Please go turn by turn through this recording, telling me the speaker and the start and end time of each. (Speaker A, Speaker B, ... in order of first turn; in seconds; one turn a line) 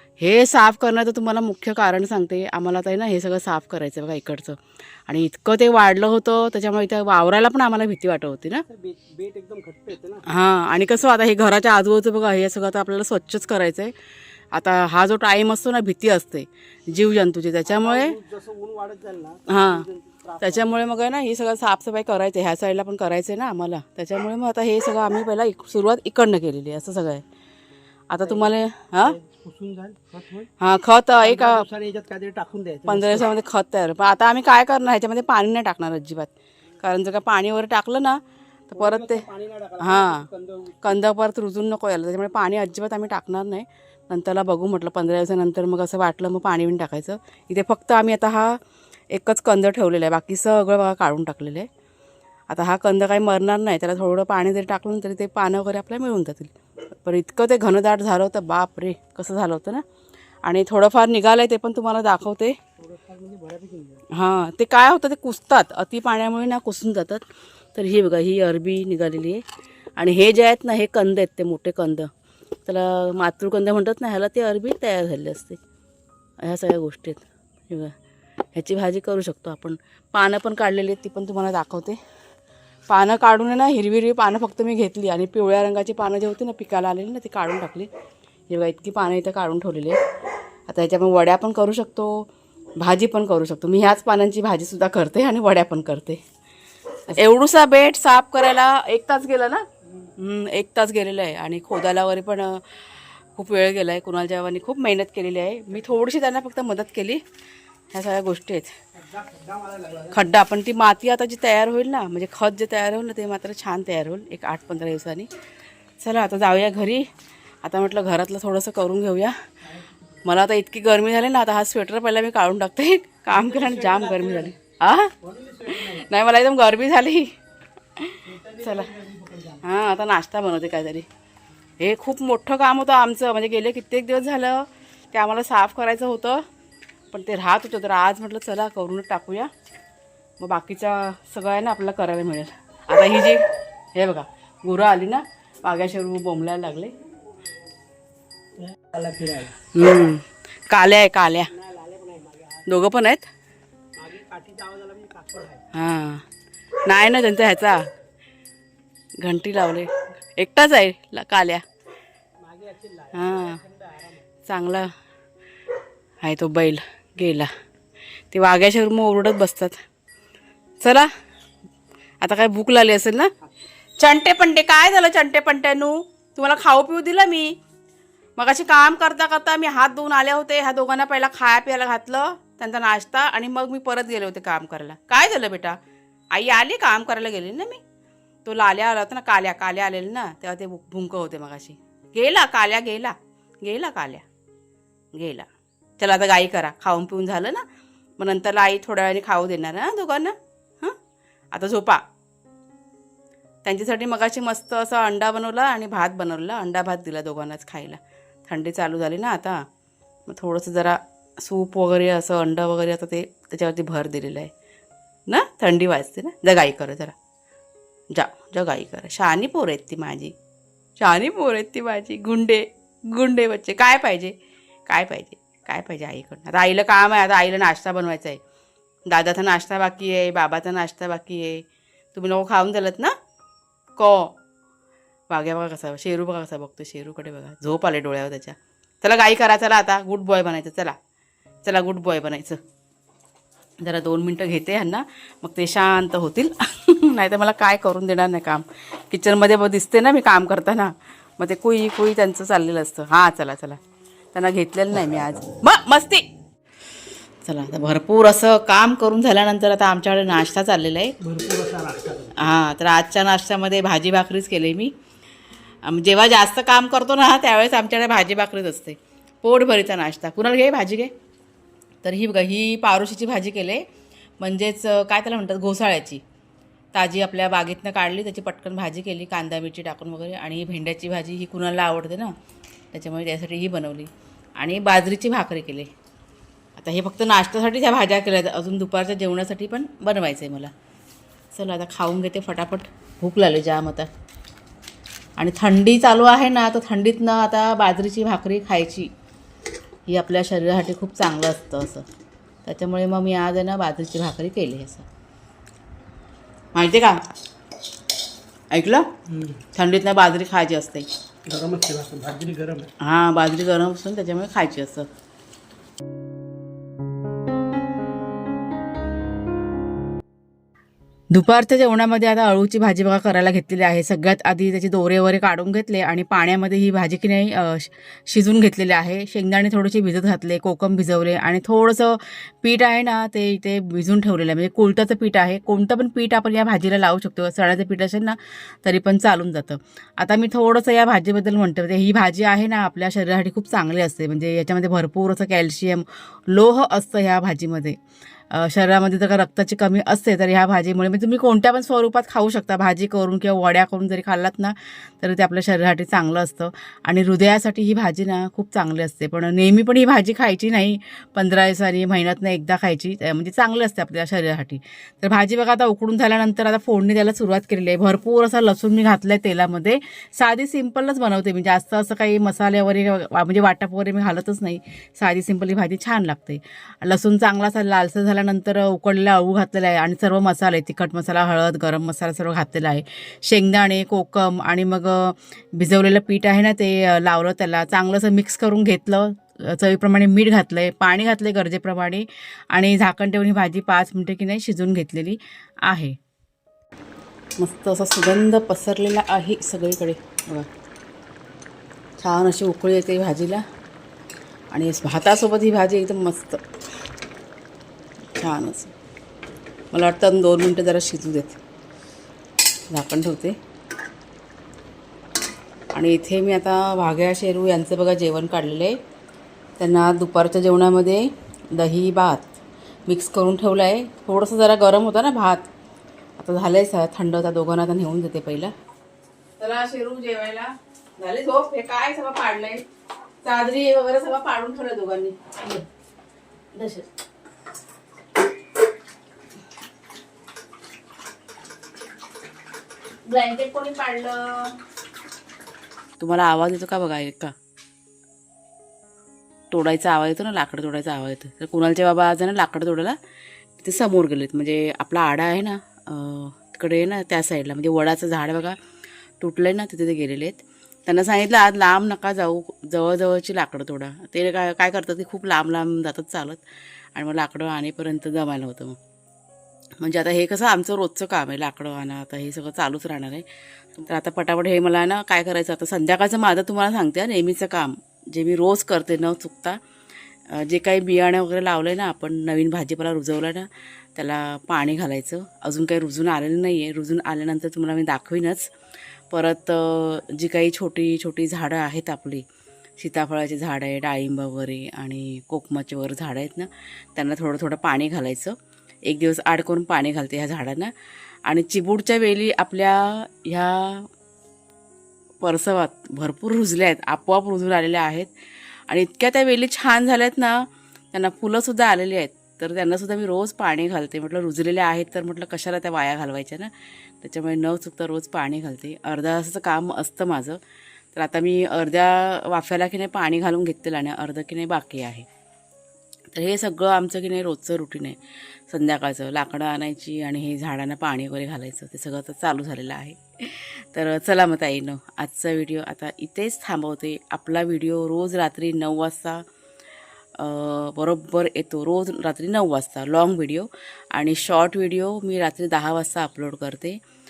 Speaker A: 0.2-8.6
Speaker B: 8.7-10.3
Speaker A: 10.3-13.9
Speaker A: 14.5-18.1
Speaker B: 17.6-20.7
Speaker A: 19.5-19.9
Speaker A: 20.4-27.2
Speaker A: 28.1-29.2
Speaker B: 28.2-30.5
Speaker A: 30.6-31.6
Speaker B: 31.2-33.3
Speaker A: 32.9-39.2
Speaker B: 38.7-41.0
Speaker A: 39.8-40.3
Speaker A: 40.8-48.6
Speaker A: 49.1-51.7
Speaker A: 52.5-56.5
Speaker A: 57.0-59.8
Speaker A: 60.4-62.5
Speaker B: 62.8-64.0
Speaker A: 64.1-69.4
Speaker A: 70.0-72.1
Speaker A: 72.7-75.6
Speaker A: 76.4-77.9
Speaker A: 78.5-82.0
Speaker A: 82.9-87.9
Speaker A: 88.5-90.0
Speaker A: 90.7-96.2
Speaker A: 97.1-99.6
Speaker A: 100.2-107.2
Speaker A: 107.9-108.7
Speaker B: 108.9-110.2
Speaker A: 110.1-115.3
Speaker A: 116.0-117.1
Speaker A: 117.6-119.3
Speaker B: 119.6-120.2
Speaker A: 120.2-125.1
Speaker B: 123.3-124.5
Speaker B: 125.2-126.1
Speaker A: 125.8-127.3
Speaker A: 128.0-128.9
Speaker B: 128.2-129.7
Speaker A: 129.6-131.1
Speaker A: 131.8-136.4
Speaker A: 137.1-139.5
Speaker A: 140.4-143.4
Speaker A: 143.9-146.9
Speaker B: 148.6-149.6
Speaker A: 149.7-151.5
Speaker B: 151.5-152.7
Speaker A: 152.7-153.3
Speaker B: 154.0-155.6
Speaker A: 155.7-156.2
Speaker A: 156.8-157.8
Speaker A: 159.2-161.6
Speaker B: 162.4-164.2
Speaker A: 163.1-163.6
Speaker A: 164.5-164.9
Speaker A: 166.2-167.5
Speaker A: 168.3-169.8
Speaker A: 170.8-171.1
Speaker A: 172.2-173.3
Speaker A: 174.0-177.5
Speaker A: 178.4-185.8
Speaker A: 186.3-187.8
Speaker A: 188.4-194.2
Speaker A: 195.1-197.6
Speaker A: 198.2-200.9
Speaker A: 201.5-202.0
Speaker A: 203.6-209.6
Speaker A: 210.3-214.5
Speaker A: 215.3-217.1
Speaker A: 218.1-220.3
Speaker A: 221.0-228.4
Speaker A: 229.1-233.1
Speaker A: 234.0-234.3
Speaker A: 235.3-240.9
Speaker A: 241.6-242.6
Speaker A: 243.8-253.8
Speaker A: 254.3-256.2
Speaker A: 257.4-261.1
Speaker B: 261.2-262.5
Speaker A: 262.4-264.9
Speaker A: 265.8-271.1
Speaker A: 272.0-273.8
Speaker A: 274.4-276.2
Speaker A: 276.9-282.3
Speaker A: 282.9-285.9
Speaker A: 286.8-290.7
Speaker A: 291.5-294.1
Speaker A: 295.4-299.1
Speaker A: 300.1-302.0
Speaker A: 302.6-305.1
Speaker A: 306.7-307.2
Speaker A: 308.7-309.1
Speaker B: 309.3-309.6
Speaker A: 309.7-311.1
Speaker B: 311.5-312.9
Speaker A: 313.0-315.1
Speaker A: 321.3-348.0
Speaker A: 348.5-396.1
Speaker A: 397.6-400.7
Speaker A: 402.2-403.6
Speaker A: 404.7-406.6
Speaker A: 408.4-408.9
Speaker A: 409.9-411.6
Speaker A: 412.9-413.6
Speaker A: 415.9-419.0
Speaker A: 419.8-422.5
Speaker A: 423.1-425.7
Speaker A: 426.4-428.7
Speaker A: 429.6-432.8
Speaker A: 433.4-435.8
Speaker A: 436.7-437.1
Speaker A: 443.3-444.8
Speaker A: 446.2-447.5
Speaker A: 449.7-453.2
Speaker A: 453.8-458.8
Speaker A: 459.4-466.6
Speaker A: 467.1-469.0
Speaker A: 470.0-479.8
Speaker A: 480.5-488.7
Speaker A: 489.3-492.4
Speaker A: 493.0-498.5
Speaker A: 499.1-500.9
Speaker A: 501.4-504.1
Speaker A: 505.4-508.3
Speaker A: 508.9-520.6
Speaker A: 521.1-525.3
Speaker A: 526.3-528.2
Speaker A: 528.7-539.4
Speaker A: 540.4-547.0